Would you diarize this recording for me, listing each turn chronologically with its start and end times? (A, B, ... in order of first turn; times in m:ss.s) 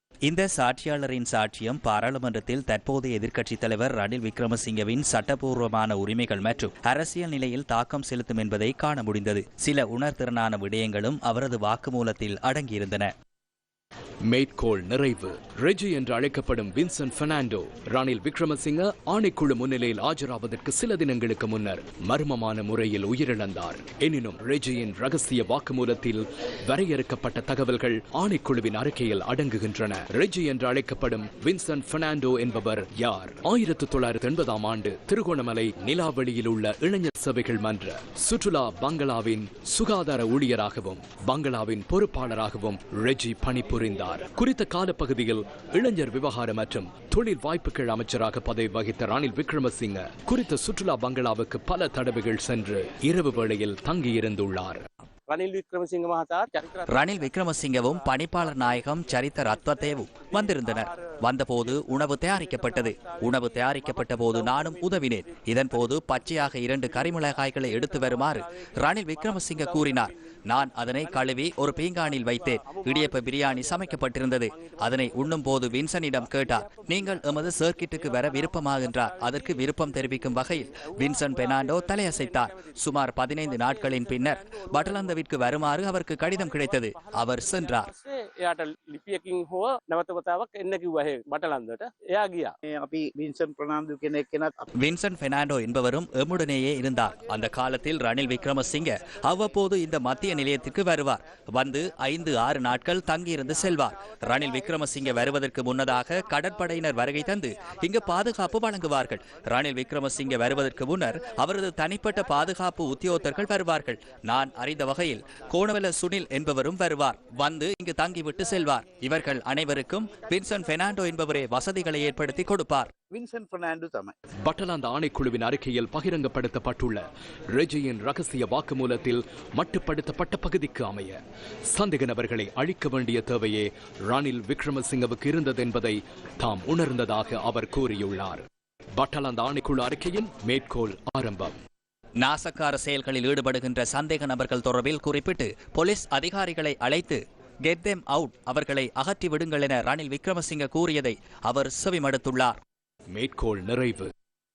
0:00.2-0:13.1 A
0:14.2-0:54.9 B
0:55.3-0:56.8 C
0:56.9-1:27.9 A
1:27.9-1:32.5 C
1:32.7-1:34.5 D
1:34.8-2:02.9 A
2:03.1-2:04.1 D
2:04.4-2:21.6 B
2:22.2-2:32.6 A
2:33.1-2:34.1 B